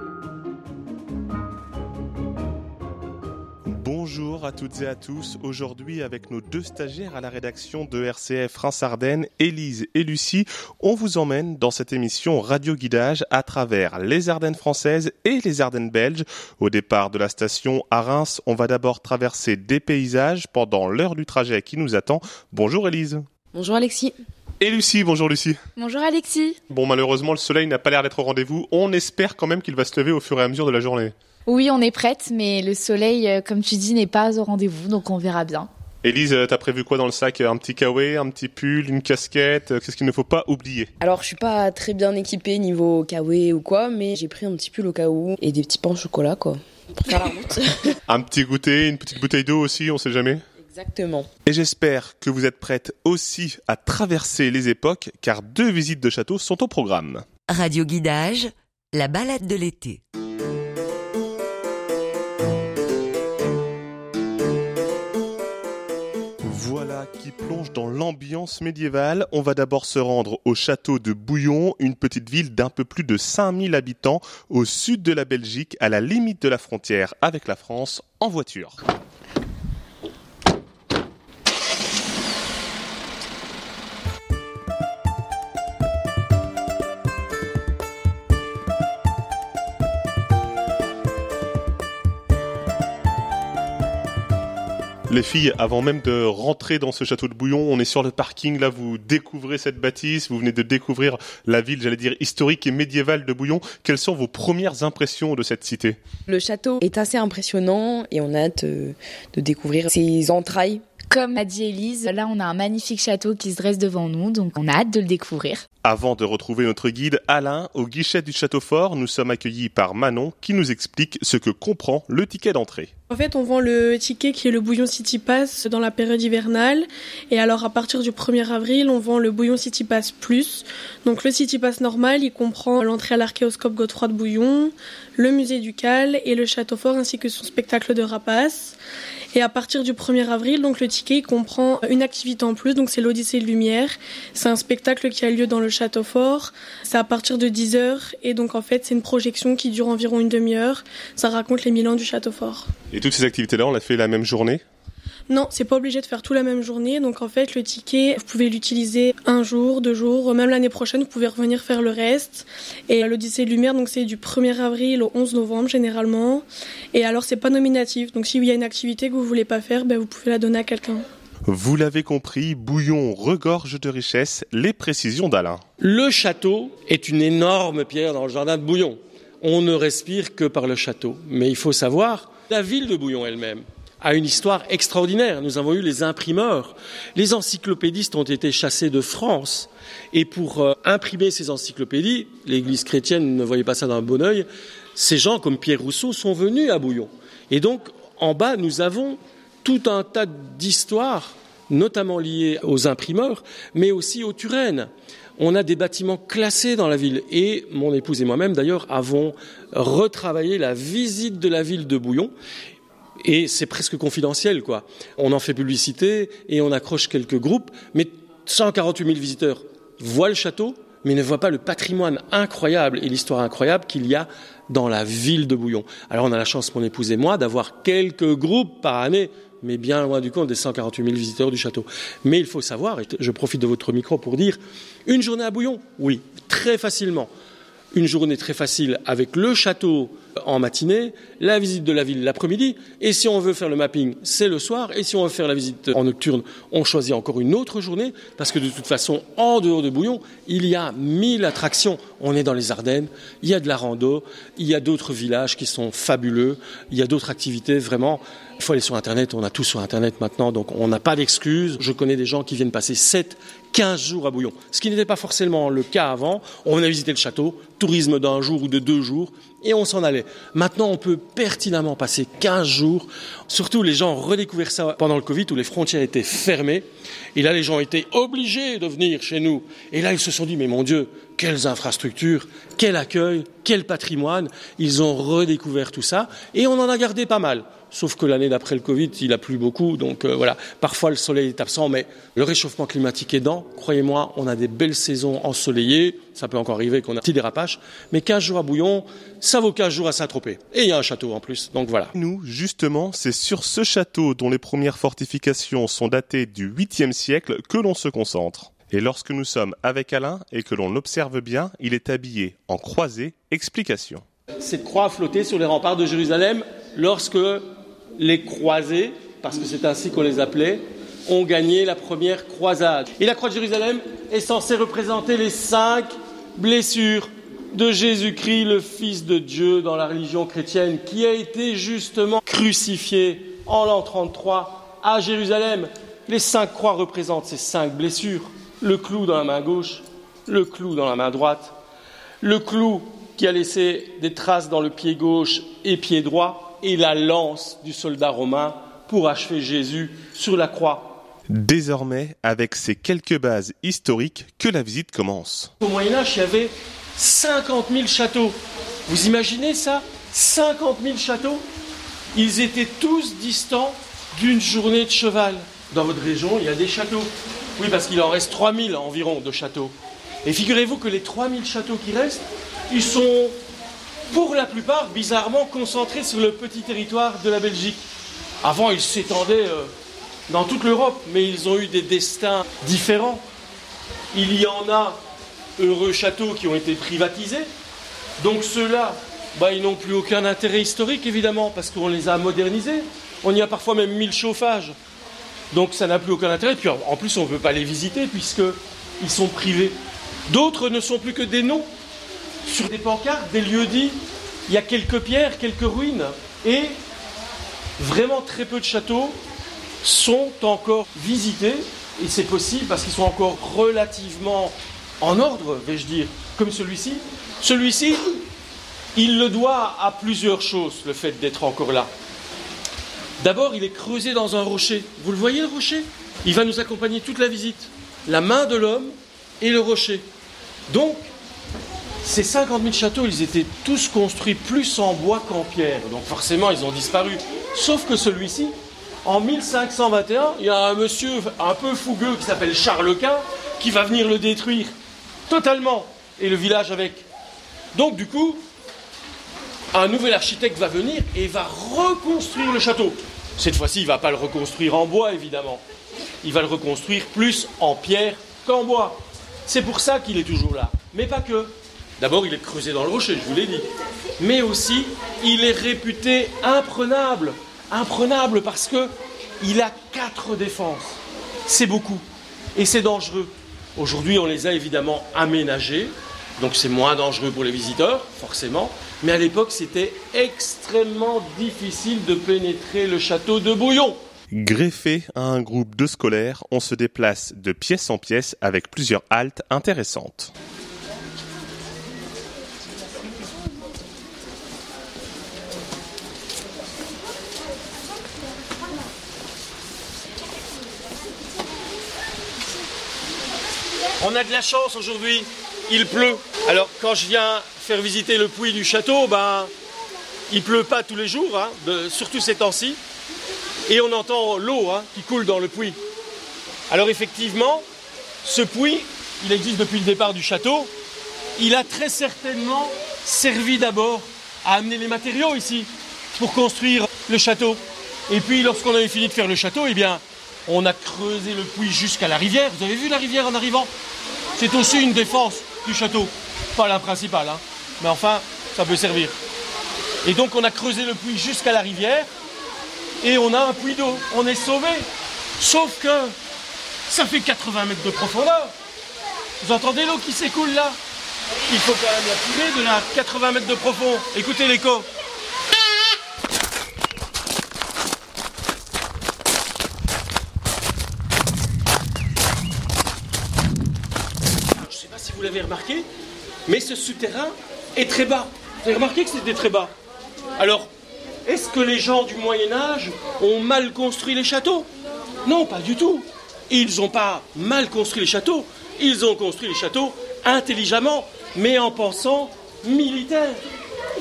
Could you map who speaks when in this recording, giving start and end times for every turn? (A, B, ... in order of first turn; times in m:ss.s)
0:03.6-0:23.3 A
0:23.5-0:24.2 B
0:24.6-0:25.6 A
0:25.8-0:26.6 C
0:26.7-0:31.1 A
0:31.5-0:35.7 C
0:36.0-0:40.9 A
0:41.0-0:48.0 B
0:48.1-0:50.4 A
0:50.6-0:51.3 B
0:51.5-0:57.3 A
0:57.5-1:00.0 D
1:06.4-1:18.8 A
1:35.1-1:46.0 A
1:46.3-1:50.8 B
1:51.1-1:55.6 C
1:55.8-2:02.9 A
2:03.1-2:18.8 E
2:19.3-2:32.7 E
2:32.9-2:34.6 A
2:35.3-2:51.0 E
2:51.5-2:55.6 A
2:55.8-3:32.3 F
3:33.2-3:57.3 F
3:57.9-5:02.1 F
5:02.1-5:14.2 A
5:14.6-5:41.8 F
5:42.4-5:51.2 F
5:51.5-5:55.7 A
5:55.8-6:01.6 F
6:02.3-6:13.6 F
6:14.3-6:18.1 F
6:18.6-6:19.9 F
6:20.5-6:23.4 F
6:24.3-6:25.2 F
6:25.8-6:27.7 F
6:28.4-6:35.0 F
6:35.7-6:40.0 F
6:40.5-6:41.9 F
6:42.6-6:47.0 F
6:48.0-6:49.4 F
6:50.0-6:58.4 F
6:59.2-7:02.1 F
7:03.4-7:10.3 F
7:10.9-7:11.3 F
7:12.2-7:24.9 F
7:25.5-7:27.3 F
7:27.9-7:28.6 F
7:29.9-7:35.8 F
7:36.4-7:52.2 F
7:52.8-8:04.2 F
8:04.5-8:10.5 A
8:24.2-8:29.7 F
8:30.5-8:33.0 F
8:33.9-8:36.0 F
8:36.9-8:37.8 F
8:38.4-8:40.9 F
8:41.6-8:53.9 F
8:54.6-8:59.4 F
9:00.2-9:02.3 F
9:03.2-9:05.1 F
9:05.6-9:06.4 F
9:07.1-9:08.7 F
9:09.6-9:11.0 F
9:11.7-9:15.1 F
9:24.7-9:26.1 F
9:26.7-9:29.9 F
9:30.6-9:30.9 F
9:31.4-9:34.9 F
9:35.4-9:43.6 F